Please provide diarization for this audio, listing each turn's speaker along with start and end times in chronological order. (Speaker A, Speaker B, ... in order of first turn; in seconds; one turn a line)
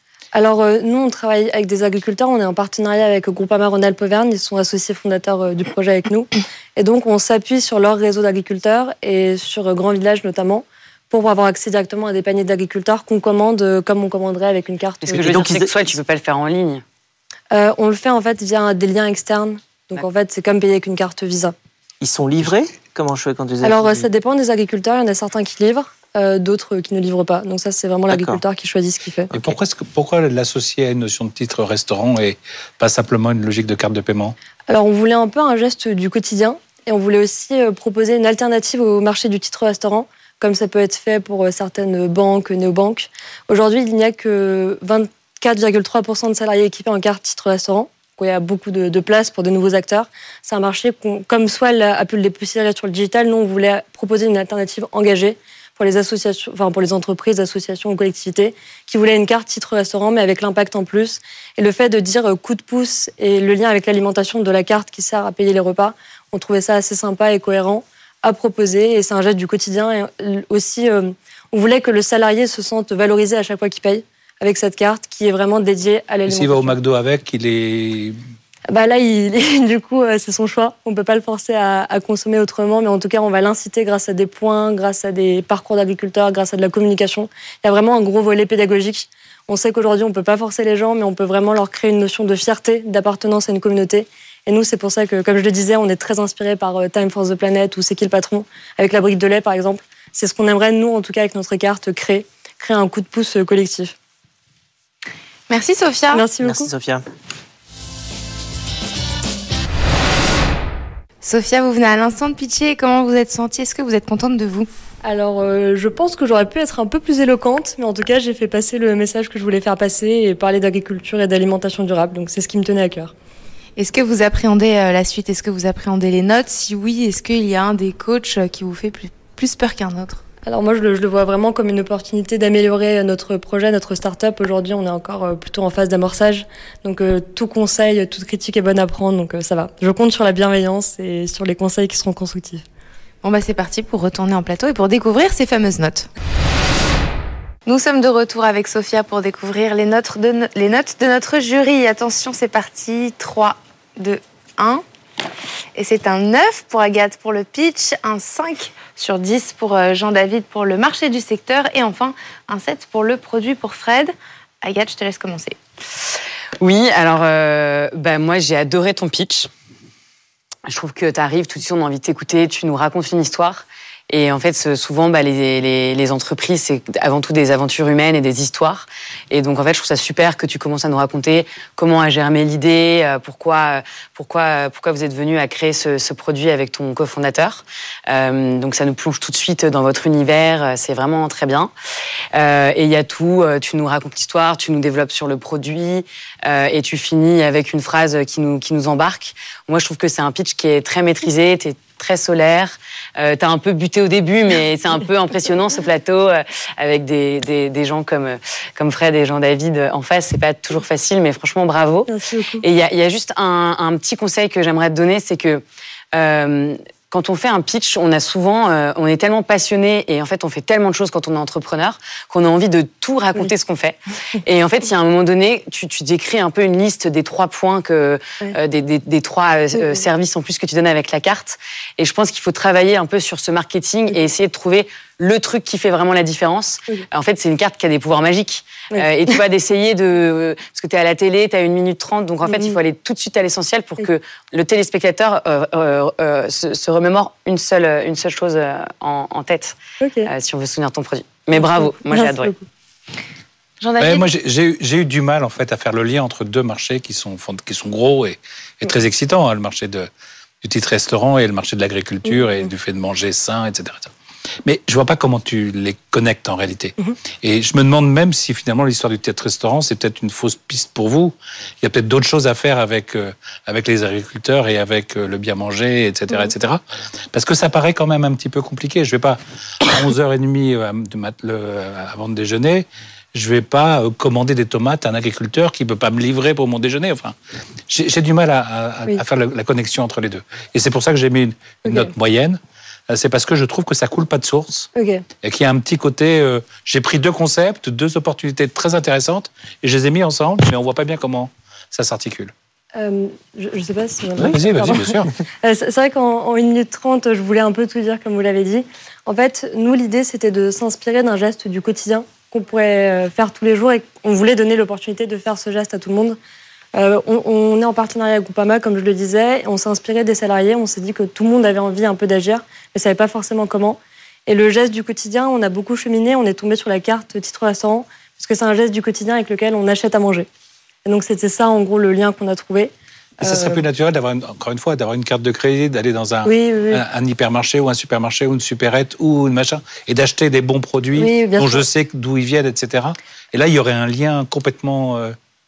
Speaker A: 0.3-15.2
Speaker B: 15.0-16.8
Speaker C: 15.1-15.9
Speaker A: 17.5-21.5
Speaker C: 22.0-24.1
Speaker A: 23.6-29.3
Speaker C: 28.1-28.4
Speaker C: 29.3-29.6
Speaker D: 29.3-34.4
Speaker A: 34.7-76.7
Speaker D: 76.3-78.2
Speaker A: 78.7-103.9
Speaker E: 105.5-106.2
Speaker A: 106.1-106.7
Speaker C: 106.4-107.0
Speaker E: 111.2-114.7
Speaker A: 115.0-123.1
Speaker E: 123.8-130.2
Speaker A: 130.4-142.6
Speaker E: 143.2-146.1
Speaker E: 147.7-154.8
Speaker E: 155.7-165.6
Speaker B: 166.6-169.5
Speaker B: 170.7-191.7
Speaker B: 192.3-252.5
Speaker A: 212.1-212.6
Speaker A: 229.8-230.0
Speaker A: 242.4-242.8
Speaker A: 250.0-250.3
Speaker A: 251.5-252.6
Speaker E: 253.8-254.3
Speaker D: 254.0-260.1
Speaker D: 260.6-264.1
Speaker A: 262.2-262.7
Speaker D: 264.6-287.3
Speaker D: 287.9-294.9
Speaker A: 291.8-292.1
Speaker A: 294.9-295.2
Speaker D: 295.4-302.5
Speaker A: 302.9-316.4
Speaker D: 304.4-305.3
Speaker A: 316.9-330.5
Speaker A: 331.0-333.8
Speaker D: 333.4-345.4
Speaker A: 336.4-337.0
Speaker A: 341.1-341.9